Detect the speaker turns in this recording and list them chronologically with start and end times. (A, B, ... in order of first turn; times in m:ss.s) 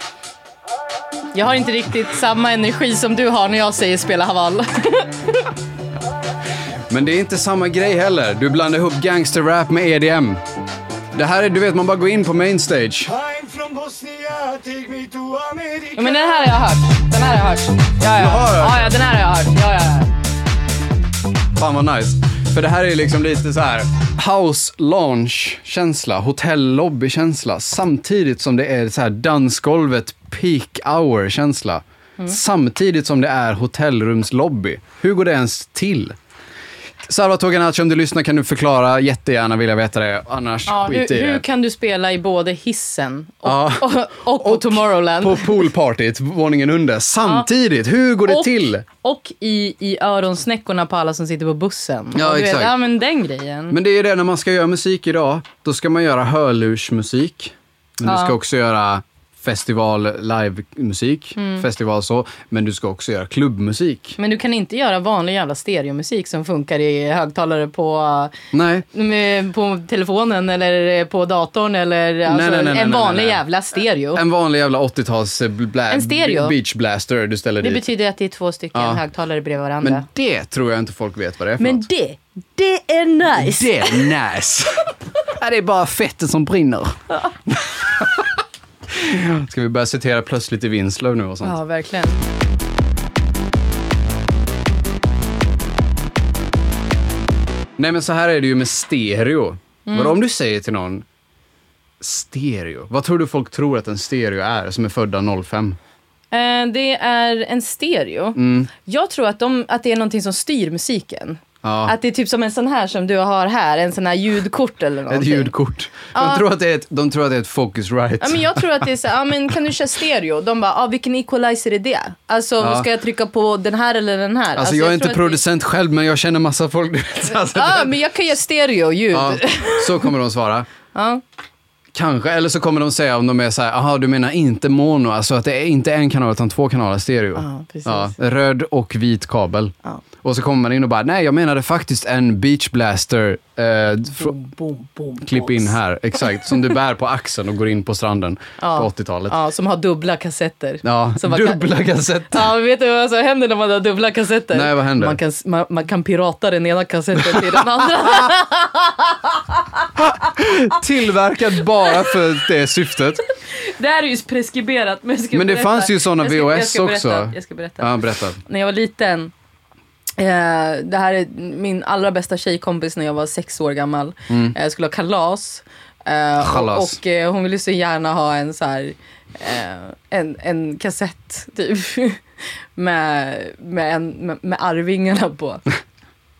0:01.3-0:05.5 A
0:06.9-0:10.4 B
0:11.1-0:13.1 B
0:13.1-0:16.5 C
0:15.9-0:20.1 A
0:18.1-0:18.9 B
0:21.6-0:36.2 B
0:37.0-0:41.4 B
0:40.7-0:45.7 A
0:43.4-0:48.8 B
0:48.2-0:53.8 A
0:52.1-0:52.7 B
0:53.7-1:04.2 B
0:58.0-0:58.3 A
1:01.4-1:01.6 A
1:04.2-1:08.3 A
1:08.5-1:08.8 B
1:08.9-1:14.2 A
1:12.2-1:13.4 B
1:14.1-1:17.8 B
1:15.9-1:16.5 A
1:17.6-1:20.0 A
1:18.7-1:19.0 B
1:19.8-1:21.8 B
1:21.6-1:24.1 A
1:23.3-1:28.3 B
1:28.9-1:31.6 B
1:31.4-1:32.2 A
1:37.8-1:41.0 B
1:39.9-1:40.2 A
1:42.0-1:45.8 B
1:46.3-1:55.5 A
1:48.4-1:48.7 B
1:51.6-1:51.9 B
1:55.1-1:58.6 B
1:56.1-1:56.4 A
1:58.2-2:05.4 A
2:02.6-2:02.9 B
2:04.6-2:07.9 B
2:07.5-2:10.1 A
2:09.1-2:10.7 B
2:10.9-2:11.2 A
2:11.9-2:24.3 B
2:17.4-2:18.1 A
2:24.2-2:25.7 A
2:25.2-2:29.4 B
2:28.6-2:31.7 A
2:30.8-2:32.5 B
2:32.3-2:39.9 A
2:34.5-2:35.2 B
2:40.0-2:43.2 B
2:41.9-2:42.1 A
2:43.4-2:49.3 A
2:45.3-2:48.4 B
2:50.2-3:02.2 A
2:54.3-2:54.5 B
2:56.4-2:57.0 B
3:02.8-3:05.6 A